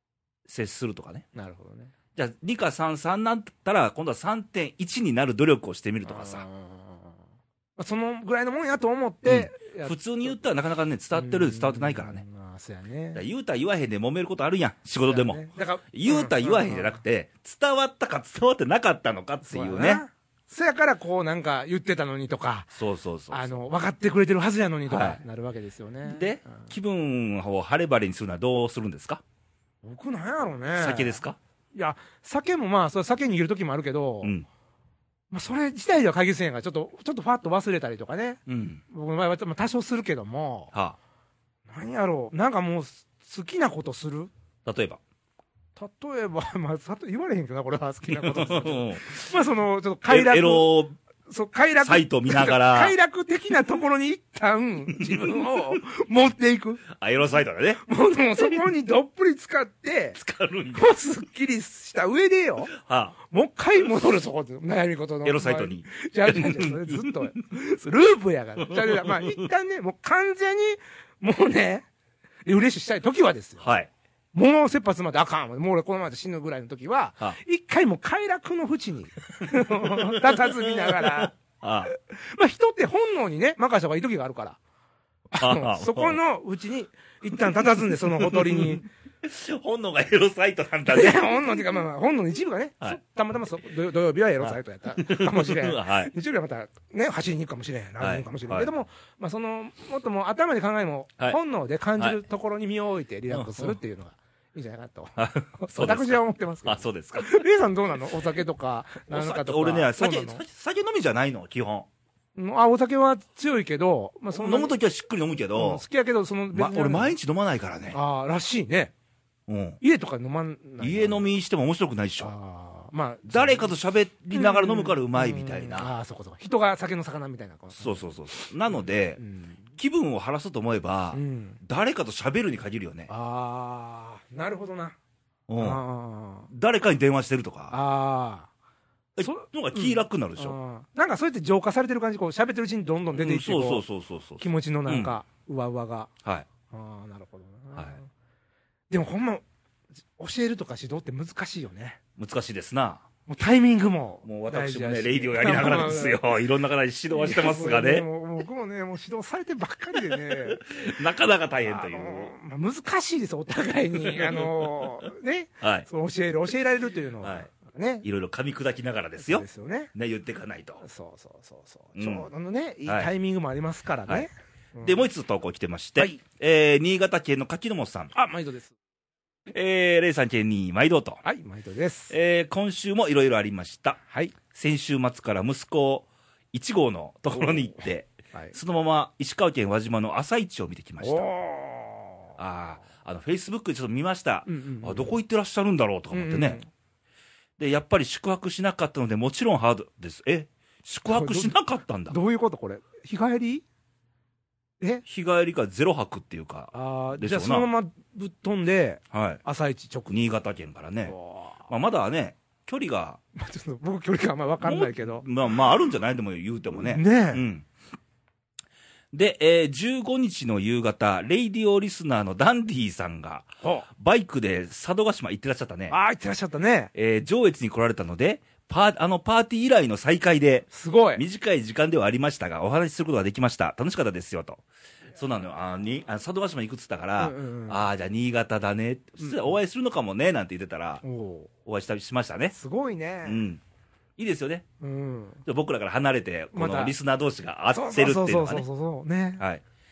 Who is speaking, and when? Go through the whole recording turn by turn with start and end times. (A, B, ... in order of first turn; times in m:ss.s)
0:00.4-0:01.2 A
0:01.3-0:01.9 B
0:02.1-0:06.4 A
0:06.0-0:07.1 B
0:07.8-0:10.4 B
0:09.2-0:12.2 A
0:11.1-0:13.2 B
0:13.1-0:20.0 A
0:15.0-0:17.0 B
0:19.5-0:22.7 B
0:22.7-0:23.5 A
0:23.3-0:26.7 B
0:24.9-0:25.2 A
0:26.0-0:29.2 A
0:29.8-0:31.2 B
0:30.8-0:31.4 A
0:31.7-0:34.3 B
0:35.3-0:40.7 B
0:38.5-0:38.8 A
0:41.7-0:44.3 B
0:44.6-0:45.0 A
0:45.8-0:50.7 B
0:48.1-0:49.2 A
0:50.1-0:51.0 A
0:51.2-0:56.8 B
0:51.8-0:52.9 A
0:54.9-0:55.4 A
0:56.9-0:57.8 A
0:57.8-1:00.2 B
1:00.2-1:00.9 A
1:00.7-1:02.7 B
1:02.7-1:03.1 A
1:03.2-1:11.8 B
1:05.2-1:07.2 A
1:08.6-1:09.4 A
1:12.4-1:13.7 B
1:13.6-1:13.9 A
1:14.3-1:21.3 B
1:19.6-1:21.9 A
1:21.8-1:24.6 B
1:25.3-1:28.8 B
1:25.4-1:26.2 A
1:27.4-1:31.4 A
1:30.9-1:50.4 B
1:34.4-1:36.1 A
1:38.0-1:38.7 A
1:43.3-1:43.8 A
1:45.2-1:47.4 A
1:49.1-1:51.9 A
1:52.4-1:54.7 B
1:54.3-1:55.8 A
1:55.5-1:57.1 B
1:56.5-1:58.0 A
1:57.9-1:58.9 B
1:59.5-1:59.8 A
1:59.8-2:01.2 B
2:00.8-2:02.3 A
2:02.2-2:03.7 B
2:03.3-2:05.9 A
2:04.3-2:09.6 B
2:07.8-2:09.2 A
2:09.8-2:13.1 A
2:11.1-2:11.6 B
2:13.1-2:15.0 B
2:15.5-2:15.8 A
2:15.6-2:16.5 B
2:16.5-2:17.7 A
2:17.7-2:18.5 B
2:19.2-2:20.6 A
2:19.2-2:23.8 B
2:23.1-2:25.1 A
2:24.4-2:26.1 B
2:26.7-2:28.1 B
2:28.9-2:29.4 B
2:30.2-2:32.0 B
2:32.2-2:33.0 A
2:33.3-2:36.2 B
2:34.2-2:38.0 A
2:37.1-2:40.6 B
2:39.9-2:42.3 A
2:41.6-2:48.0 B
2:44.0-2:44.9 A
2:45.6-2:45.8 A
2:47.2-2:47.5 A
2:48.0-2:50.8 A
2:49.2-2:49.9 B
2:50.8-2:55.0 B
2:52.0-2:52.3 A
2:54.8-2:58.1 A
2:58.1-2:58.7 B
2:59.5-3:01.2 A
3:01.2-3:02.1 B
3:02.1-3:04.0 A
3:04.1-3:04.3 B
3:04.5-3:11.3 A
3:07.3-3:08.6 B
3:11.0-3:12.3 B
3:12.4-3:16.6 A
3:14.4-3:15.1 B
3:16.1-3:16.7 B
3:17.6-3:22.2 A
3:21.1-3:21.5 B
3:22.1-3:23.6 B
3:25.0-3:27.7 A
3:26.7-3:30.1 B
3:29.1-3:29.4 A
3:30.1-3:31.1 A
3:31.1-3:31.6 B
3:31.7-3:33.2 A
3:33.4-3:35.2 B
3:34.6-3:37.6 A
3:36.7-3:37.4 B
3:39.1-3:45.9 A
3:43.6-3:43.9 B
3:45.9-3:46.9 B
3:46.9-3:54.6 A
3:50.7-3:51.2 B
3:55.1-4:01.0 A
3:57.2-3:57.8 B
3:59.2-3:59.5 B
4:01.0-4:01.5 B
4:01.6-4:02.5 A
4:02.5-4:03.4 B
4:03.2-4:03.6 A
4:04.2-4:04.6 A
4:04.8-4:05.4 B
4:05.4-4:08.6 A
4:06.5-4:06.9 B
4:07.7-4:09.4 B